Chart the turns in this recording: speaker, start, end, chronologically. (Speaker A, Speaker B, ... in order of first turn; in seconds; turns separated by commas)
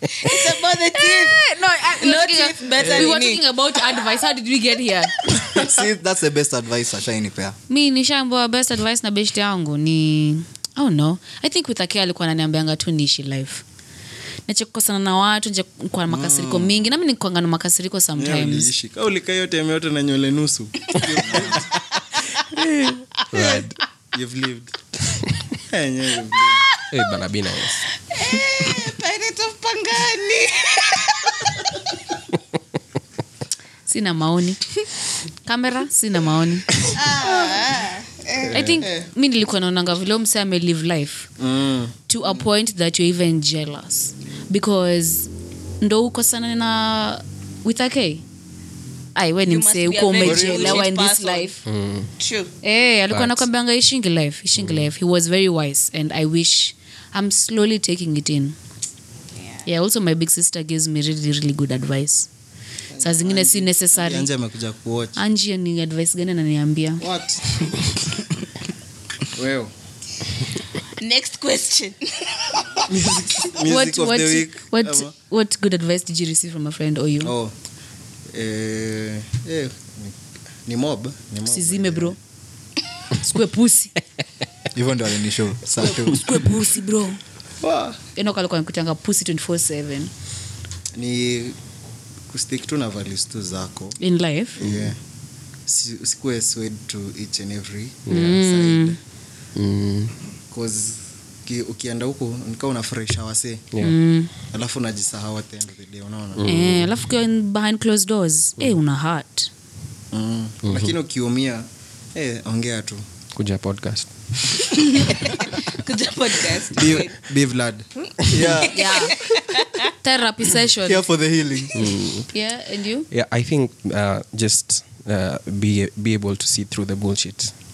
Speaker A: 0.2-3.4, Speaker B: 0.9-5.2, Speaker C: 5.4-7.5, Speaker B: 7.7-13.6, Speaker B: 14.5-18.7, Speaker C: 16.1-16.9, Speaker D: 18.1-21.8, Speaker E: 22.4-23.8, Speaker D: 24.1-24.8, Speaker D: 25.7-26.8, Speaker E: 26.9-27.8, Speaker A: 28.0-31.7, Speaker B: 33.9-34.6, Speaker B: 35.4-36.7, Speaker A: 36.9-38.7, Speaker D: 37.2-37.6, Speaker B: 38.5-41.3, Speaker D: 38.8-39.1, Speaker D: 41.4-42.5, Speaker B: 42.1-45.3, Speaker B: 45.8-48.2, Speaker B: 49.1-51.6, Speaker A: 49.4-51.5, Speaker C: 50.2-50.9, Speaker E: 51.6-52.1, Speaker A: 52.2-52.5, Speaker B: 52.6-58.5, Speaker E: 53.1-53.5, Speaker E: 54.5-54.9, Speaker A: 59.4-59.6, Speaker B: 59.6-62.3, Speaker D: 62.9-65.2, Speaker B: 63.0-64.3, Speaker B: 65.2-67.0, Speaker D: 67.0-67.4, Speaker D: 69.3-69.7, Speaker A: 71.0-72.8, Speaker D: 72.9-75.1, Speaker B: 73.6-77.3, Speaker D: 77.2-77.5, Speaker D: 78.3-82.2, Speaker B: 81.5-82.2, Speaker B: 83.2-83.9, Speaker C: 84.7-86.2, Speaker B: 85.8-87.2, Speaker D: 87.6-88.0, Speaker B: 88.2-90.1, Speaker D: 90.9-91.5, Speaker D: 92.3-94.0, Speaker B: 94.0-94.6, Speaker D: 94.6-95.0, Speaker D: 95.7-99.0, Speaker E: 98.1-98.3, Speaker B: 98.1-99.0, Speaker E: 99.5-100.1, Speaker D: 100.5-103.7, Speaker B: 103.8-104.3, Speaker D: 104.5-106.4, Speaker E: 106.3-106.9, Speaker B: 106.4-109.5, Speaker D: 110.1-113.0, Speaker E: 110.6-110.9, Speaker E: 113.3-114.1, Speaker A: 114.9-117.2, Speaker D: 116.7-117.9, Speaker C: 118.3-119.0, Speaker A: 118.6-119.8, Speaker B: 118.7-119.2, Speaker B: 120.0-121.0, Speaker C: 120.8-121.9, Speaker E: 121.7-122.3, Speaker B: 122.3-123.1, Speaker E: 123.1-127.5